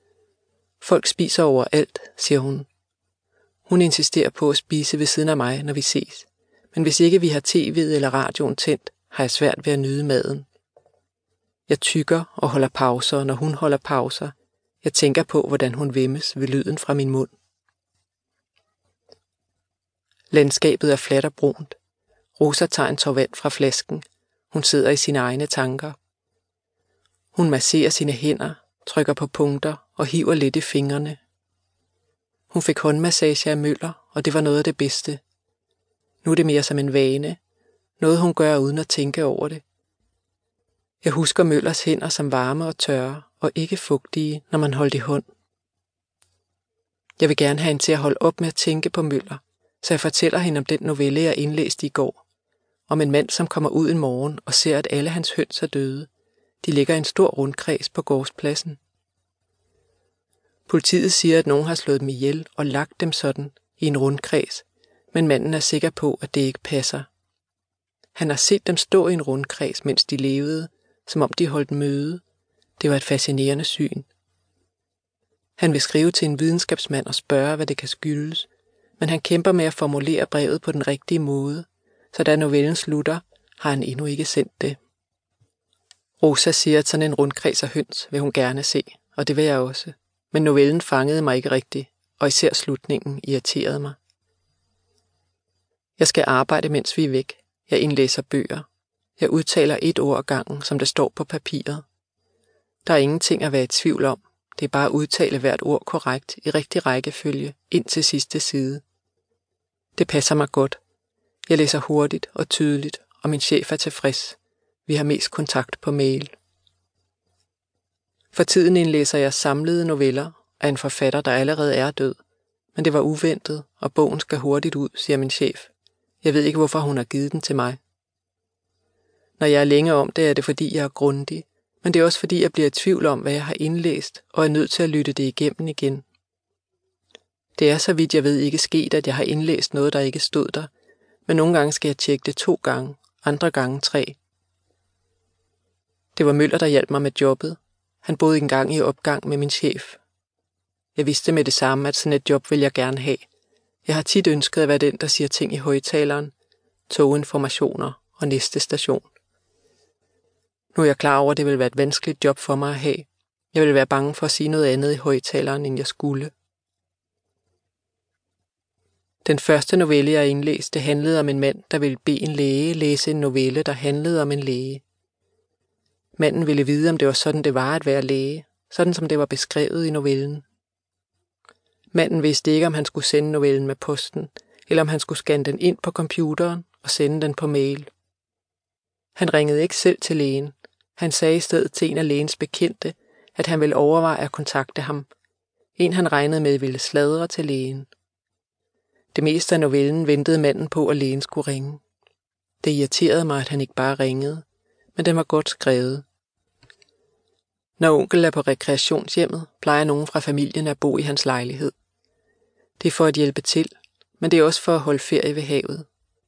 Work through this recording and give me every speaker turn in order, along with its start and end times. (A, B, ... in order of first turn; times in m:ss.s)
0:00.8-0:02.7 A
0:03.7-0:10.4 A
0:11.7-0:17.3 A
0:20.3-0:21.8 A
0:22.4-0:26.0 A
0:27.3-0:31.2 A
0:32.5-0:35.2 A
0:36.2-0:37.4 A
0:38.0-0:39.6 A
0:41.0-0:45.2 A
0:47.2-0:52.2 A
0:52.9-0:56.1 A
0:56.6-0:58.8 A
1:00.7-1:07.1 A
1:08.1-1:12.2 A
1:12.8-1:14.1 A
1:15.6-1:18.5 A
1:19.0-1:24.8 A
1:26.2-1:34.0 A
1:36.0-1:38.6 A
1:39.2-1:41.8 A
1:42.8-1:48.8 A
1:50.0-1:50.8 A
1:51.5-1:56.3 A
1:58.3-2:02.2 A
2:02.7-2:05.7 A
2:06.2-2:07.8 A
2:09.4-2:16.0 A
2:17.6-2:20.7 A
2:21.3-2:24.2 A
2:26.1-2:30.0 A
2:30.9-2:33.2 A
2:33.8-2:36.3 A
2:36.9-2:39.1 A
2:40.7-2:46.3 A
2:49.2-2:54.8 A
2:56.2-3:00.4 A
3:01.9-3:07.9 A
3:09.2-3:15.1 A
3:15.8-3:17.9 A
3:19.1-3:21.8 A
3:22.6-3:24.4 A
3:25.0-3:26.0 A
3:27.8-3:31.7 A
3:32.8-3:35.9 A